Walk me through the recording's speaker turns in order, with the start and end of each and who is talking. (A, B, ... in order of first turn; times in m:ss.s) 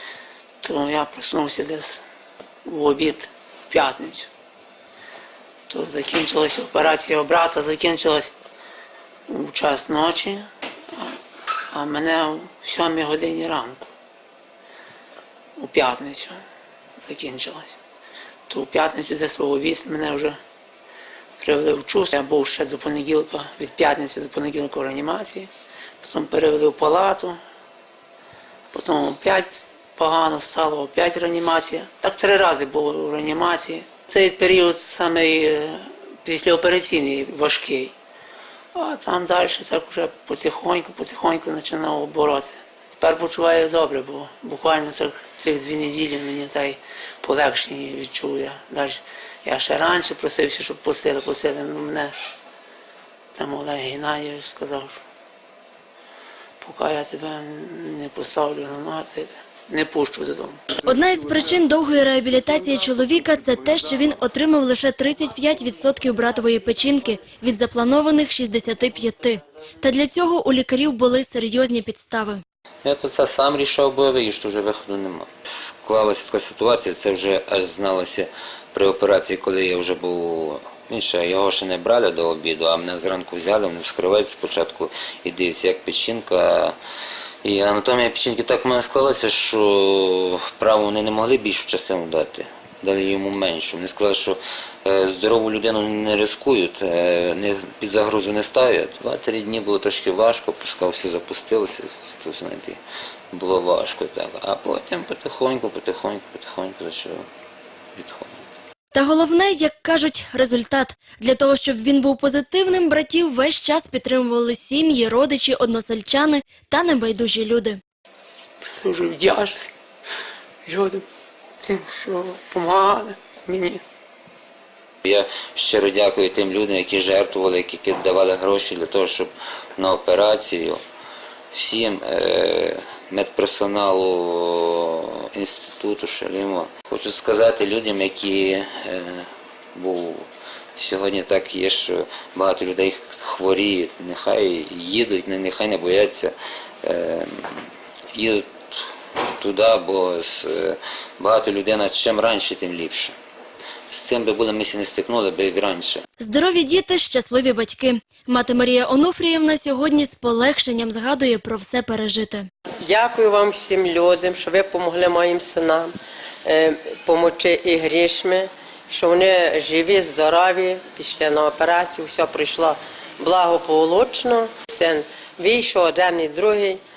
0:00.6-0:02.0 A
0:02.6-0:04.3 A
0:05.7-0:08.3 A
0:09.3-0:11.2 A
0:11.7-0:13.9 A
0:15.6-0:16.4 A
0:17.0-0:17.8 A
0:18.5-0:20.4 A
0:21.4-0:25.5 A
0:26.0-0:27.4 A
0:28.7-0:37.9 A
0:38.7-0:52.1 A
0:53.4-0:55.0 A
0:56.6-1:00.6 A
1:00.8-1:12.4 B
1:12.8-1:26.8 C
1:27.4-1:42.8 C
1:43.3-1:47.2 C
1:48.0-1:48.5 C
1:48.9-1:57.8 B
1:58.8-1:59.6 A
2:00.6-2:01.0 A
2:01.6-2:03.8 A
2:05.0-2:10.8 C
2:11.5-2:26.3 C
2:26.8-2:33.1 C
2:33.9-2:36.0 C
2:36.2-2:42.5 B
2:42.8-2:45.9 D
2:46.4-2:56.8 D